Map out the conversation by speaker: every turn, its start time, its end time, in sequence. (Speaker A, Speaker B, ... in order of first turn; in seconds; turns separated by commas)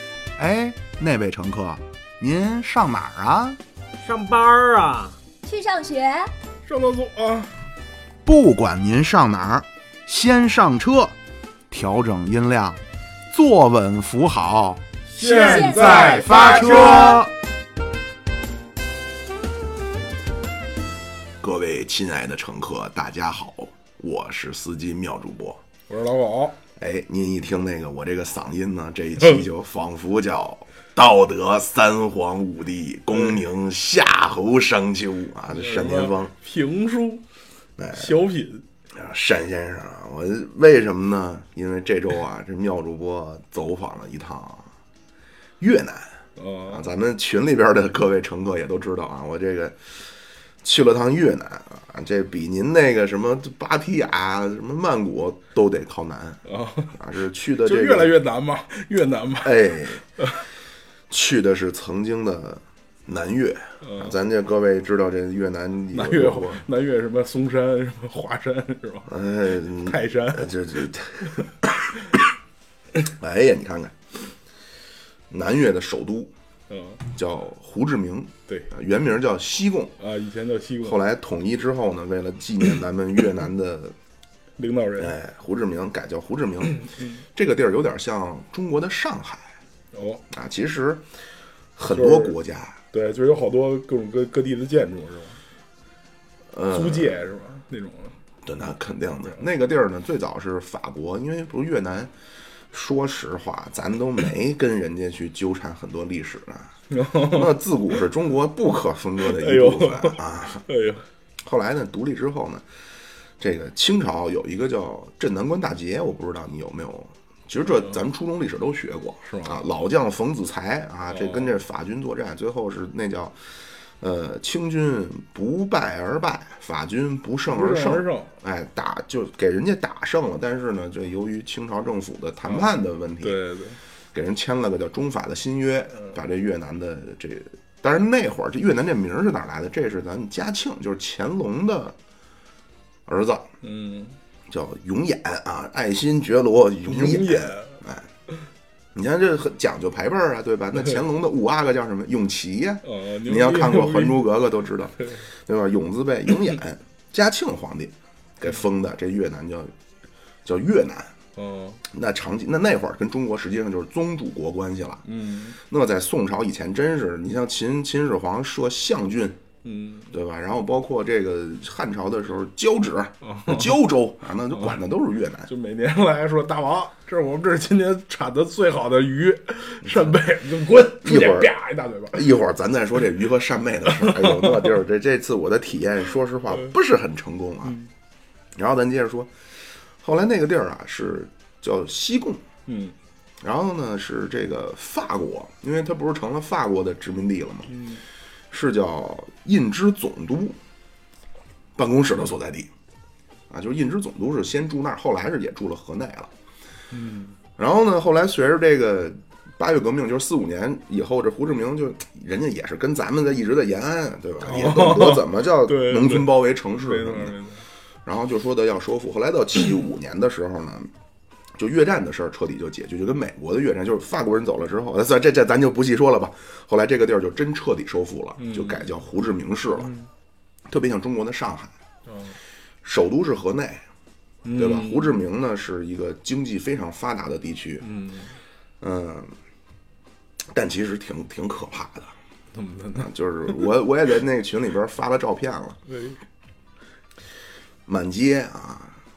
Speaker A: 0.4-3.6, Speaker B: 4.0-5.2, Speaker C: 5.4-6.3, Speaker D: 6.7-7.5, Speaker A: 8.2-11.2, Speaker A: 11.7-14.8, Speaker D: 15.2-17.1, Speaker C: 15.2-17.2, Speaker B: 15.3-16.7, Speaker A: 15.7-17.3, Speaker A: 21.4-25.6, Speaker D: 25.9-26.6, Speaker A: 26.8-36.3, Speaker D: 35.5-37.2, Speaker A: 37.8-38.2, Speaker D: 37.9-38.6, Speaker A: 38.9-44.7, Speaker A: 45.6-46.2, Speaker D: 46.4-46.9, Speaker A: 46.7-49.8, Speaker A: 50.6-56.4, Speaker D: 56.5-57.0, Speaker A: 56.9-58.2, Speaker D: 57.6-60.4, Speaker A: 59.4-60.0, Speaker A: 61.1-66.6, Speaker D: 63.8-64.1, Speaker D: 65.9-69.1, Speaker A: 69.1-71.9, Speaker D: 69.8-70.7, Speaker A: 73.0-74.0, Speaker A: 75.3-76.3, Speaker D: 76.7-77.0, Speaker A: 77.1-80.0, Speaker D: 80.0-81.0, Speaker A: 80.8-84.0, Speaker D: 84.6-85.1, Speaker A: 85.0-86.8, Speaker D: 86.7-87.2, Speaker A: 87.3-89.5, Speaker D: 89.9-90.2, Speaker A: 90.3-91.0, Speaker A: 91.8-92.8, Speaker D: 91.9-92.4, Speaker D: 92.9-95.4, Speaker A: 96.5-97.2, Speaker D: 96.7-98.1, Speaker A: 98.5-102.1, Speaker A: 102.7-106.7, Speaker D: 106.9-107.6, Speaker A: 107.3-110.6, Speaker D: 109.2-111.0, Speaker A: 111.4-112.6, Speaker A: 113.4-123.4, Speaker D: 119.3-119.6, Speaker D: 121.1-121.5, Speaker A: 124.0-133.4, Speaker D: 127.5-128.3, Speaker D: 133.2-133.8, Speaker A: 134.1-142.0, Speaker A: 143.1-143.5, Speaker D: 143.6-144.2, Speaker A: 144.5-148.1, Speaker D: 146.9-147.8, Speaker A: 148.9-159.7, Speaker D: 152.8-154.3, Speaker A: 160.4-161.1, Speaker D: 161.4-161.8, Speaker A: 161.9-165.0, Speaker D: 165.1-165.6, Speaker A: 165.6-169.4, Speaker D: 169.6-170.1, Speaker A: 170.1-175.5, Speaker D: 173.2-173.8, Speaker D: 175.5-182.4, Speaker A: 179.8-180.1, Speaker A: 180.7-181.5, Speaker A: 182.1-187.8, Speaker D: 183.9-184.8, Speaker A: 188.6-189.3, Speaker A: 190.0-192.4, Speaker D: 192.7-192.9, Speaker A: 193.4-197.7, Speaker D: 197.7-198.0, Speaker A: 198.5-200.6, Speaker A: 201.8-202.7, Speaker A: 203.5-206.3, Speaker D: 206.9-207.4, Speaker A: 207.6-217.4, Speaker D: 214.4-217.6, Speaker A: 218.1-220.9, Speaker A: 221.6-229.9, Speaker D: 228.4-228.9, Speaker D: 229.8-230.1, Speaker A: 230.7-231.7, Speaker D: 232.1-232.4, Speaker A: 232.8-233.9, Speaker D: 234.4-235.2, Speaker A: 234.6-237.9, Speaker D: 237.8-238.3, Speaker A: 238.8-239.3, Speaker A: 240.5-242.1, Speaker D: 242.5-243.7, Speaker A: 243.0-245.8, Speaker D: 245.9-246.2, Speaker A: 247.9-249.0